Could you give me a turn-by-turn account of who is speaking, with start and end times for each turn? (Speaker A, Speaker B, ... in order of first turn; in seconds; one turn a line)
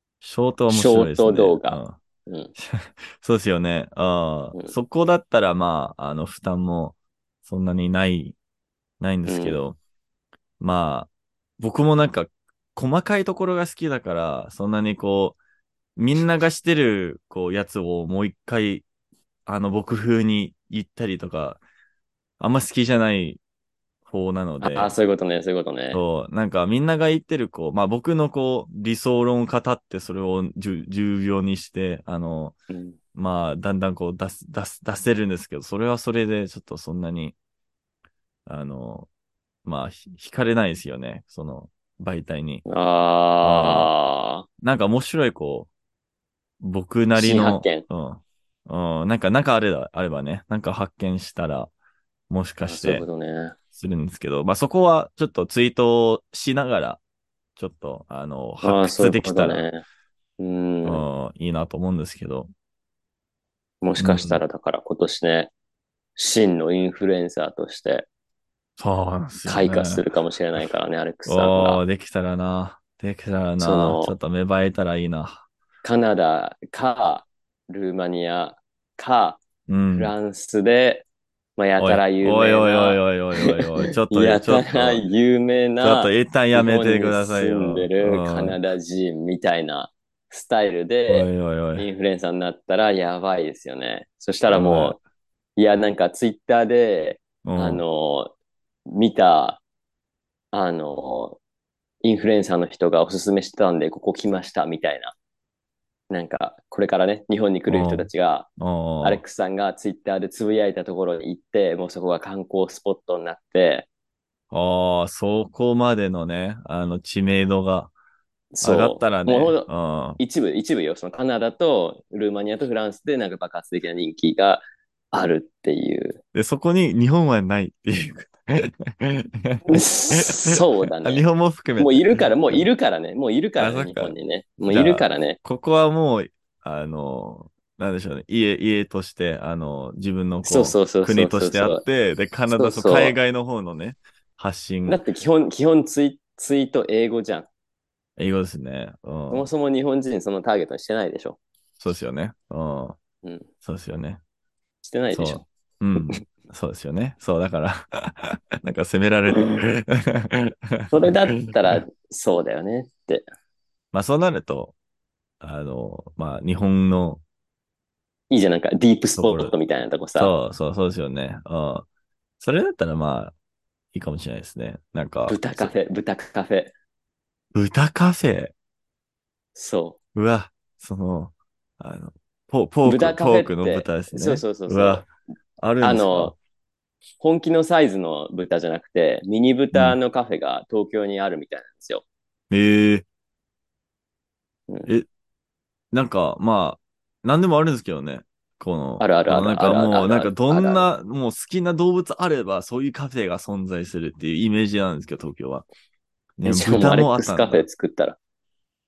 Speaker A: 0.2-2.0
Speaker B: 0.7-2.5
Speaker A: 2.5-8.3
Speaker A: 9.0-9.8
Speaker B: 9.3-9.6
Speaker A: 10.6-15.4
Speaker A: 16.0-18.8
Speaker A: 19.5-21.6
Speaker A: 22.4-23.4
Speaker A: 24.1-25.0
Speaker B: 24.6-26.0
Speaker A: 25.9-32.5
Speaker B: 32.7-33.0
Speaker A: 33.1-37.4
Speaker A: 38.5-39.1
Speaker A: 39.6-42.6
Speaker B: 42.7-44.5
Speaker A: 43.4-43.9
Speaker A: 44.6-45.7
Speaker A: 46.6-51.7
Speaker B: 47.1-47.8
Speaker A: 52.3-53.0
Speaker B: 52.6-53.5
Speaker A: 53.7-57.0
Speaker A: 57.6-59.6
Speaker B: 58.6-59.8
Speaker B: 60.4-61.0
Speaker A: 60.8-62.5
Speaker B: 63.8-65.5
Speaker A: 64.0-64.4
Speaker B: 66.2-68.1
Speaker A: 68.8-70.0
Speaker B: 69.5-71.8
Speaker A: 71.2-75.5
Speaker B: 73.6-74.1
Speaker B: 75.8-79.4
Speaker A: 79.7-80.1
Speaker B: 79.9-81.0
Speaker B: 81.6-95.0
Speaker A: 81.8-85.0
Speaker A: 85.8-88.6
Speaker A: 91.1-91.9
Speaker A: 94.5-95.0
Speaker B: 95.5-98.3
Speaker A: 97.4-97.8
Speaker B: 98.9-99.6
Speaker B: 100.5-101.4
Speaker B: 102.0-105.1
Speaker B: 106.1-108.5
Speaker A: 107.7-109.2
Speaker B: 109.0-113.9
Speaker A: 114.5-117.9
Speaker B: 118.5-119.7
Speaker A: 118.6-120.2
Speaker B: 120.2-126.2
Speaker A: 126.3-132.7
Speaker B: 129.7-131.2
Speaker B: 131.8-135.4
Speaker A: 133.6-134.2
Speaker A: 134.7-145.0
Speaker B: 140.4-141.8
Speaker B: 142.5-143.2
Speaker B: 144.9-147.5
Speaker A: 148.2-149.5
Speaker B: 149.3-151.4
Speaker A: 151.8-153.0
Speaker A: 153.6-154.2
Speaker B: 154.8-155.4
Speaker A: 155.1-161.8
Speaker B: 160.9-163.2
Speaker A: 163.9-164.7
Speaker A: 165.4-167.2
Speaker B: 168.3-170.3
Speaker A: 169.2-169.5
Speaker A: 170.2-171.8
Speaker A: 172.4-173.3
Speaker A: 173.9-175.7
Speaker B: 175.3-176.7
Speaker A: 177.5-178.5
Speaker B: 179.6-180.0
Speaker A: 180.1-185.1
Speaker B: 182.8-185.1
Speaker A: 185.6-186.3
Speaker B: 185.8-186.3
Speaker B: 187.2-192.0
Speaker A: 192.5-193.1
Speaker A: 195.9-205.6
Speaker B: 199.0-200.9
Speaker A: 206.4-207.7
Speaker B: 206.4-208.2